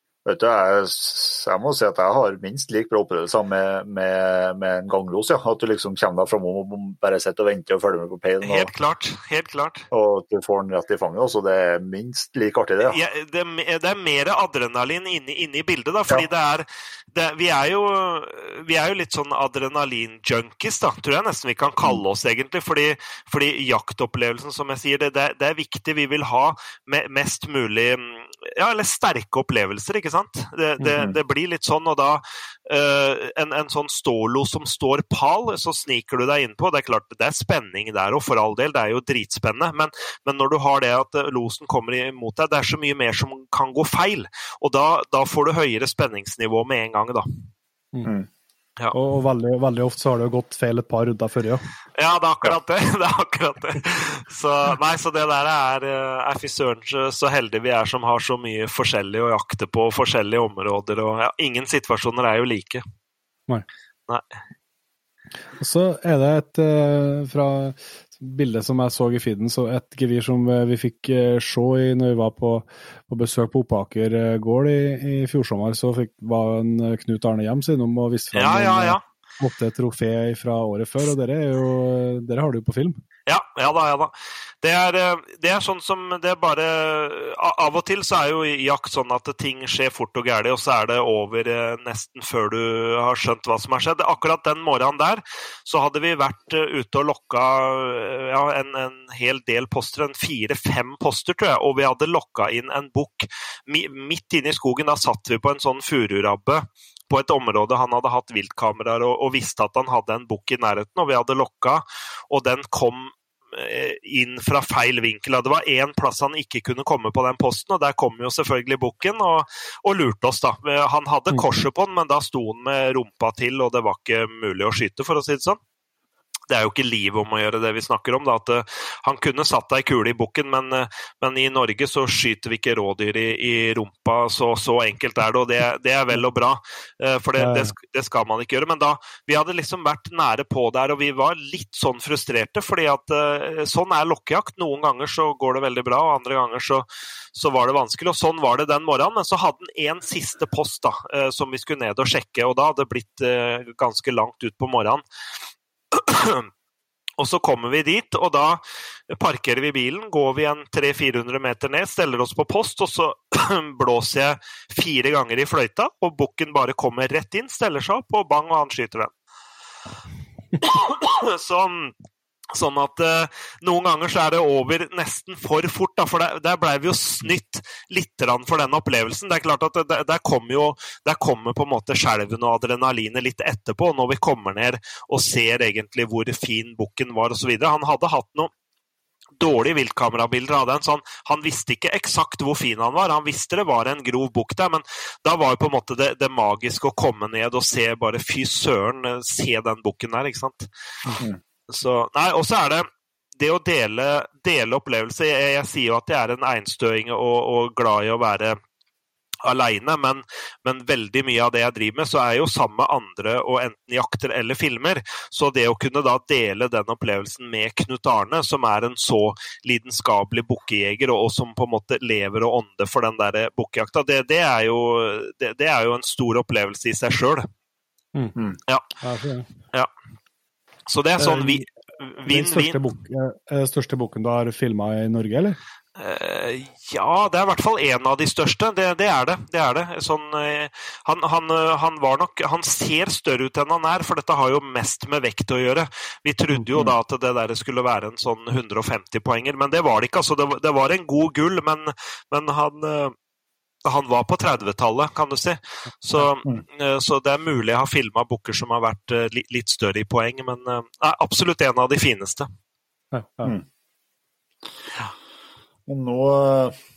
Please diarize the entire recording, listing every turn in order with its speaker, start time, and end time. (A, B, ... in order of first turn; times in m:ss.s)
0:00.2-0:08.7 A
0:08.4-0:09.9 B
0:09.9-0:13.0 A
0:12.8-0:47.3 B
0:48.9-0:51.6 C
0:52.0-1:02.8 B
1:05.6-1:23.0 C
1:18.3-1:19.0 B
1:23.3-2:05.6 B
2:06.5-2:35.0 B
2:17.4-2:17.7 C
2:35.9-2:36.5 B
2:37.2-2:49.1 B
2:50.6-2:51.9 B
2:52.5-3:08.5 B
3:09.4-3:20.7 B
3:21.7-3:28.6 B
3:29.4-3:47.5 B
3:49.0-3:49.5 C
3:50.9-3:52.8 B
3:51.2-3:51.6 C
3:52.3-3:55.6 C
3:56.0-4:13.1 B
4:13.8-4:22.5 B
4:23.1-4:23.5 C
4:25.9-4:26.8 A